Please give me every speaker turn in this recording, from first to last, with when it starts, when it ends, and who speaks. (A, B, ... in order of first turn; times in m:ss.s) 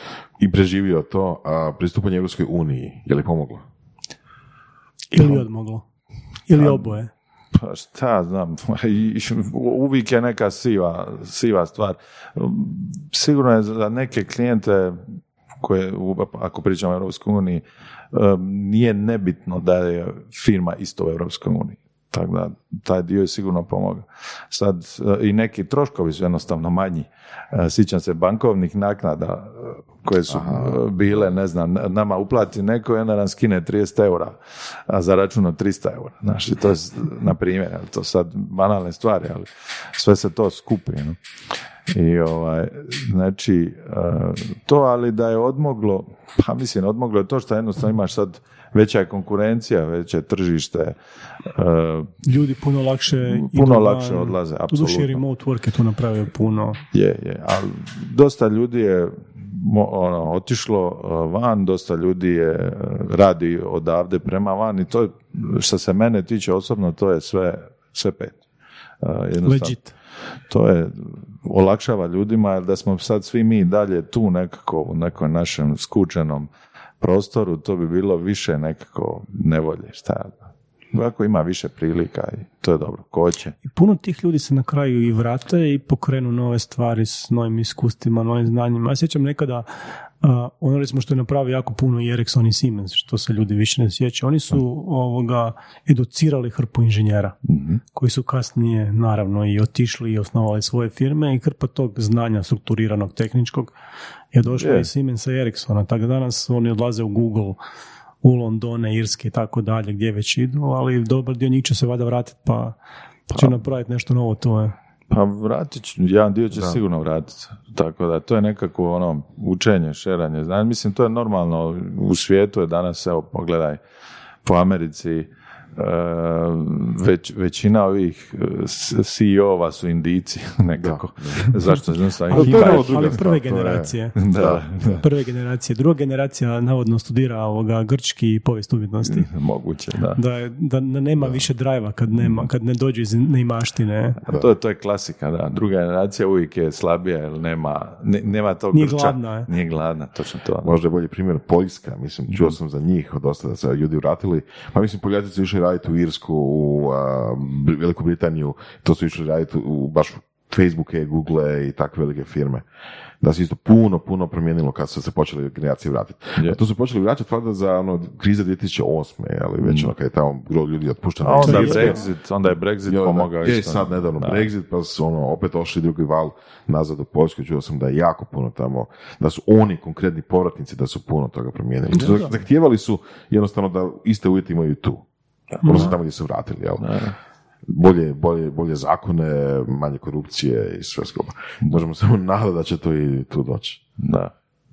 0:00.4-0:03.6 A
0:05.1-0:05.8 B
0:06.5-0:07.1 B
0:06.6-0:07.0 C
0:07.5-0:41.2 C
0:30.3-0:30.8 A
0:41.9-0:52.2 C
0:52.2-0:56.8 B
0:53.2-0:55.2 C
0:56.9-1:08.4 C
1:09.0-1:09.8 C
1:09.4-1:09.9 B
1:10.5-1:16.5 C
1:17.0-1:23.6 C
1:23.7-1:29.7 B
1:30.2-1:37.4 B
1:37.5-1:37.8 C
1:37.9-1:43.7 B
1:44.3-1:47.6 B
1:44.4-1:44.9 C
1:48.2-1:52.8 B
1:53.3-1:53.6 C
1:53.3-1:54.7 B
1:55.1-2:03.8 C
2:04.4-2:13.1 C
2:10.8-2:11.5 A
2:12.3-2:14.3 B
2:12.3-2:15.0 A
2:14.2-2:15.0 C
2:15.0-2:19.3 B
2:19.0-2:20.2 C
2:20.2-2:24.2 B
2:24.2-2:30.8 C
2:28.7-2:29.5 B
2:30.6-2:42.6 A
2:43.2-2:52.0 A
2:49.6-2:49.9 C
2:51.2-2:54.5 C
2:51.4-2:52.0 B
2:52.9-3:05.0 A
3:05.6-3:05.9 C
3:05.6-3:06.9 A
3:06.8-3:07.2 C
3:07.7-3:13.8 A
3:14.0-3:14.3 C